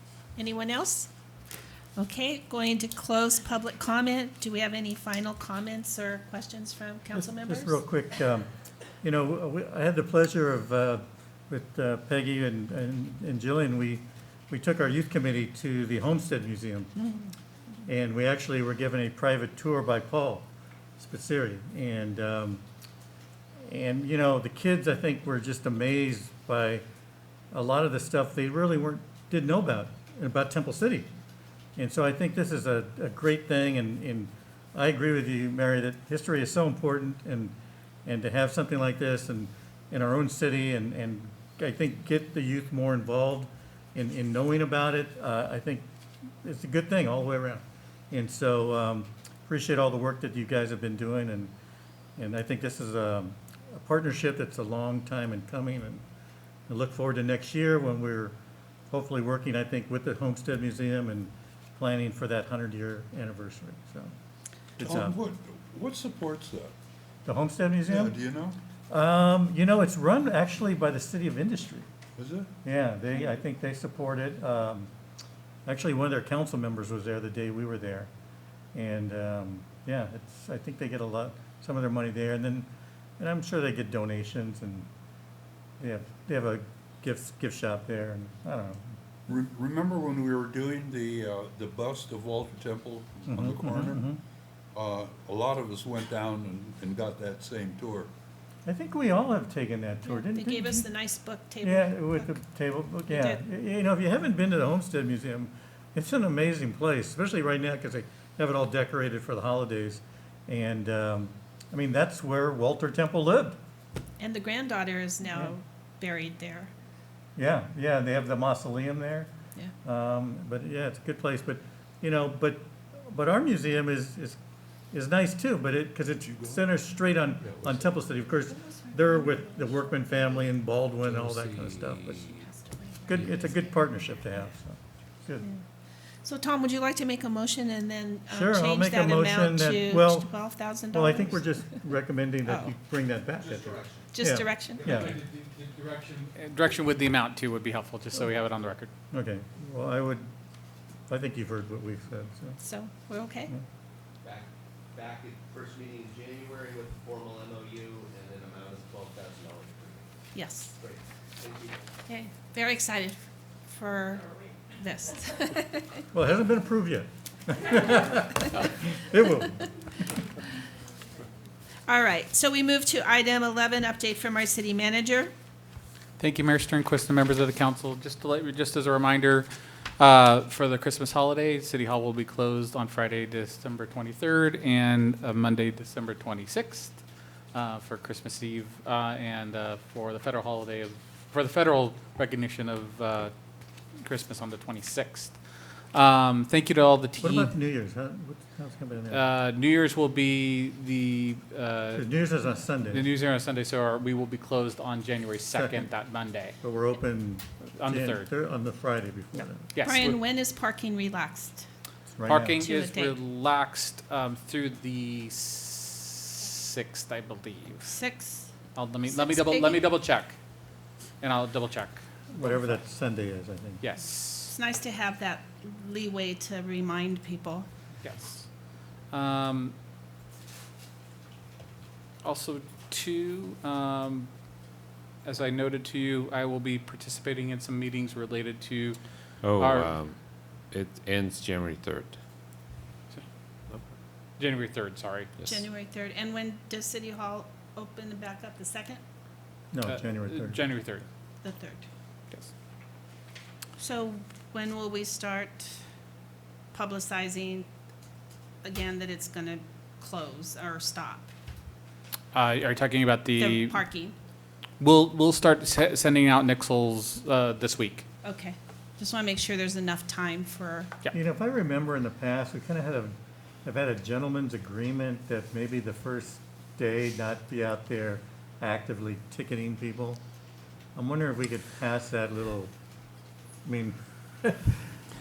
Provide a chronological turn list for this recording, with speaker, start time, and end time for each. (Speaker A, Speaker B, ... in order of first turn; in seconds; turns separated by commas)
Speaker A: 0.3-1.1, Speaker A: 1.9-7.8, Speaker B: 7.1-8.5, Speaker B: 9.0-17.1, Speaker B: 17.9-20.5, Speaker B: 21.0-22.6, Speaker B: 23.6-26.8, Speaker B: 27.5-31.1, Speaker B: 31.8-37.5, Speaker B: 38.0-45.9, Speaker B: 46.4-51.5, Speaker B: 52.2-56.0, Speaker B: 56.7-58.3, Speaker B: 58.9-64.1, Speaker B: 64.8-65.2, Speaker C: 64.8-66.7, Speaker B: 67.2-68.2, Speaker C: 67.8-68.6, Speaker B: 68.9-71.9, Speaker C: 72.2-72.5, Speaker B: 72.6-74.9, Speaker B: 75.7-78.1, Speaker B: 78.7-84.9, Speaker B: 85.8-89.0, Speaker C: 89.3-94.0, Speaker B: 93.3-94.2, Speaker C: 94.7-98.1, Speaker B: 98.7-100.9, Speaker A: 100.0-102.3, Speaker B: 101.6-113.6, Speaker A: 103.1-103.4, Speaker A: 114.2-116.7, Speaker B: 117.3-119.3, Speaker B: 119.8-124.4, Speaker B: 124.9-132.2, Speaker C: 126.2-126.7, Speaker C: 127.4-128.0, Speaker A: 128.5-130.3, Speaker D: 131.0-132.4, Speaker A: 132.2-133.7, Speaker B: 133.1-135.5, Speaker A: 136.2-141.5, Speaker B: 138.3-140.3, Speaker B: 140.9-145.2, Speaker A: 142.4-142.7, Speaker E: 143.4-143.9, Speaker A: 144.1-144.9, Speaker F: 144.8-148.9, Speaker B: 149.1-150.3, Speaker B: 151.1-152.6, Speaker A: 152.6-153.5, Speaker E: 154.2-160.1, Speaker A: 160.3-160.8, Speaker E: 160.8-161.8, Speaker A: 162.1-166.0, Speaker B: 166.1-169.7, Speaker A: 171.9-175.3, Speaker F: 176.2-187.0, Speaker F: 187.5-193.3, Speaker F: 193.9-195.4, Speaker F: 195.9-197.6, Speaker B: 197.2-199.2, Speaker F: 199.1-202.2, Speaker B: 201.9-203.1, Speaker F: 202.8-206.5, Speaker B: 205.5-205.9, Speaker B: 206.6-209.7, Speaker F: 207.8-208.3, Speaker F: 209.7-210.2, Speaker A: 209.8-211.7, Speaker B: 212.1-212.6, Speaker F: 212.3-217.9, Speaker A: 212.6-213.2, Speaker A: 217.8-218.5, Speaker F: 218.7-220.4, Speaker A: 219.1-219.8, Speaker F: 221.2-222.8, Speaker B: 222.3-223.8, Speaker F: 223.8-224.5, Speaker A: 224.5-227.7, Speaker F: 228.0-228.5, Speaker F: 229.1-229.7, Speaker F: 232.2-234.3, Speaker F: 235.2-239.9, Speaker D: 239.4-242.2, Speaker F: 244.4-245.3, Speaker A: 245.4-249.0, Speaker B: 249.7-250.6, Speaker F: 249.8-251.0, Speaker A: 251.4-251.9, Speaker A: 253.8-255.8, Speaker A: 256.7-257.7, Speaker A: 258.6-261.3, Speaker F: 262.3-263.8, Speaker A: 263.4-264.1, Speaker F: 264.8-268.1, Speaker A: 268.2-270.9, Speaker B: 271.1-280.2, Speaker B: 280.9-282.7, Speaker B: 283.6-284.8